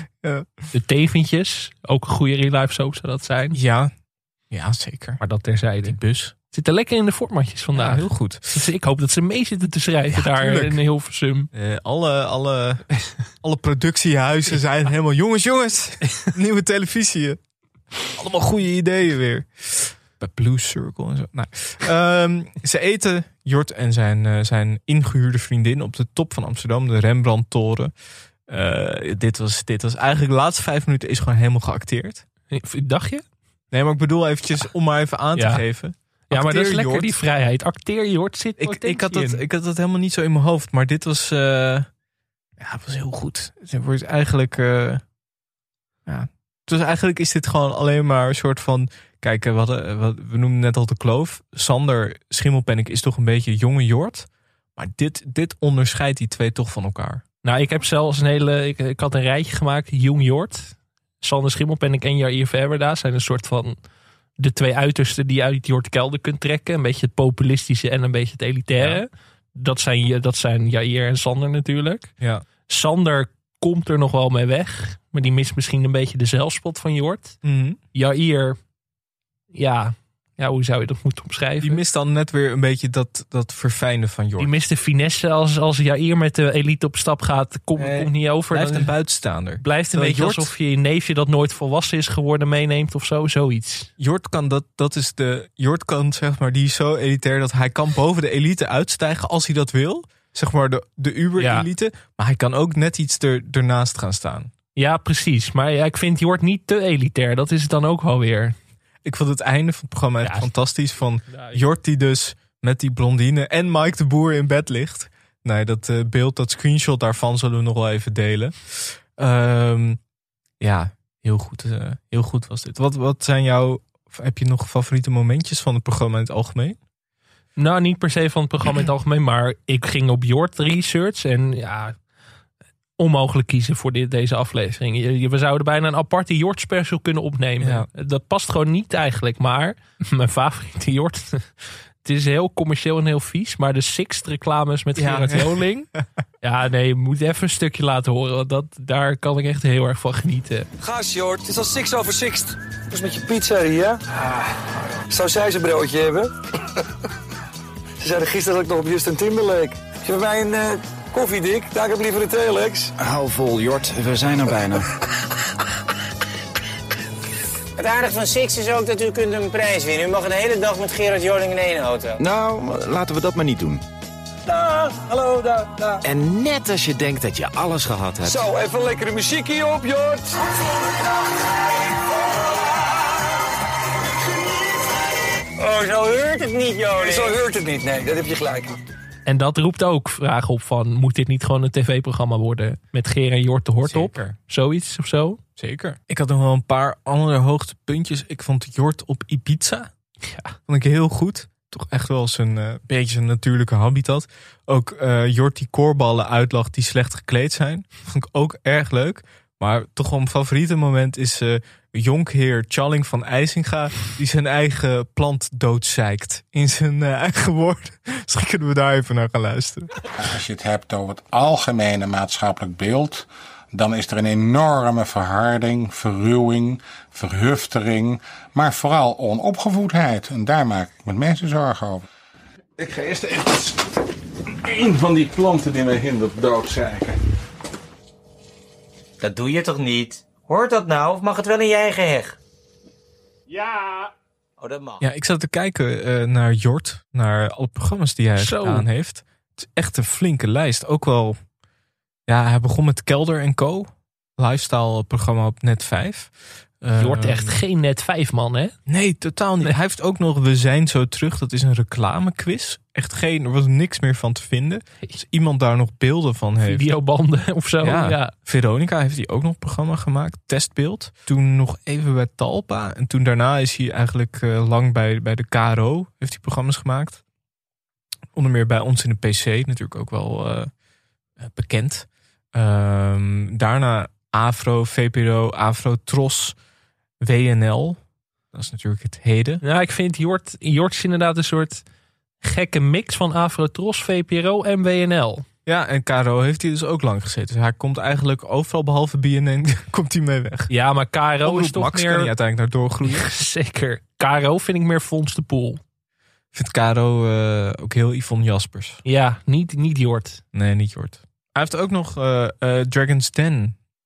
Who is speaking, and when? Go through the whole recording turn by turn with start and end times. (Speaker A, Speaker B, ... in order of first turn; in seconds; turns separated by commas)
Speaker A: 0.2-0.6, Speaker B: 0.7-3.6, Speaker A: 3.5-3.9, Speaker A: 4.5-5.2, Speaker B: 5.2-6.0, Speaker A: 5.8-6.3, Speaker B: 6.5-11.5, Speaker A: 7.8-8.5, Speaker A: 10.1-10.8, Speaker A: 11.5-12.9, Speaker A: 13.4-17.4, Speaker A: 18.1-27.9, Speaker A: 28.5-32.2, Speaker B: 32.5-33.2, Speaker A: 33.7-37.1, Speaker B: 35.4-35.6, Speaker B: 36.3-39.4, Speaker A: 38.6-41.9, Speaker A: 42.6-45.0, Speaker A: 46.1-57.2, Speaker B: 57.4-63.8, Speaker B: 64.4-72.1, Speaker A: 68.8-69.0, Speaker A: 72.2-72.5, Speaker B: 72.7-77.4, Speaker A: 77.4-77.8, Speaker B: 77.9-78.6, Speaker B: 79.5-81.8, Speaker A: 81.6-84.5, Speaker B: 84.4-88.9, Speaker A: 87.8-90.5, Speaker B: 89.6-93.9, Speaker A: 94.0-104.5, Speaker B: 101.4-101.7, Speaker B: 104.8-108.6, Speaker A: 109.0-120.0, Speaker B: 110.2-110.5, Speaker B: 111.3-111.6, Speaker A: 120.6-126.8, Speaker B: 127.6-131.9, Speaker B: 133.0-145.9, Speaker A: 137.6-137.9, Speaker A: 145.0-146.0, Speaker B: 146.4-150.7, Speaker C: 150.8-154.0, Speaker C: 155.1-156.3, Speaker C: 158.0-162.9, Speaker D: 163.0-164.8, Speaker E: 167.8-172.2, Speaker D: 172.2-173.8, Speaker C: 174.5-176.0, Speaker D: 176.1-178.3, Speaker C: 178.2-180.4, Speaker E: 185.6-187.4, Speaker C: 186.9-188.8, Speaker B: 189.3-195.4, Speaker A: 193.8-194.3, Speaker A: 195.6-199.9, Speaker B: 200.3-200.5, Speaker A: 200.7-219.9, Speaker F: 220.2-232.0, Speaker F: 232.8-233.7, Speaker F: 234.6-237.2, Speaker E: 239.2-242.4, Speaker E: 244.6-245.0, Speaker A: 245.0-251.4, Speaker B: 248.4-248.9, Speaker A: 252.3-257.6, Speaker B: 257.0-258.8, Speaker A: 258.9-266.9, Speaker B: 266.6-268.3, Speaker A: 267.8-277.2, Speaker A: 278.4-280.7, Speaker A: 281.4-286.6, Speaker A: 287.2-288.0, Speaker A: 288.5-289.6, Speaker B: 289.6-291.8, Speaker B: 292.4-295.4, Speaker A: 295.7-300.7, Speaker B: 300.7-302.3, Speaker A: 301.4-303.3, Speaker B: 303.0-305.8, Speaker A: 306.5-309.0, Speaker B: 309.1-310.4, Speaker A: 310.5-313.8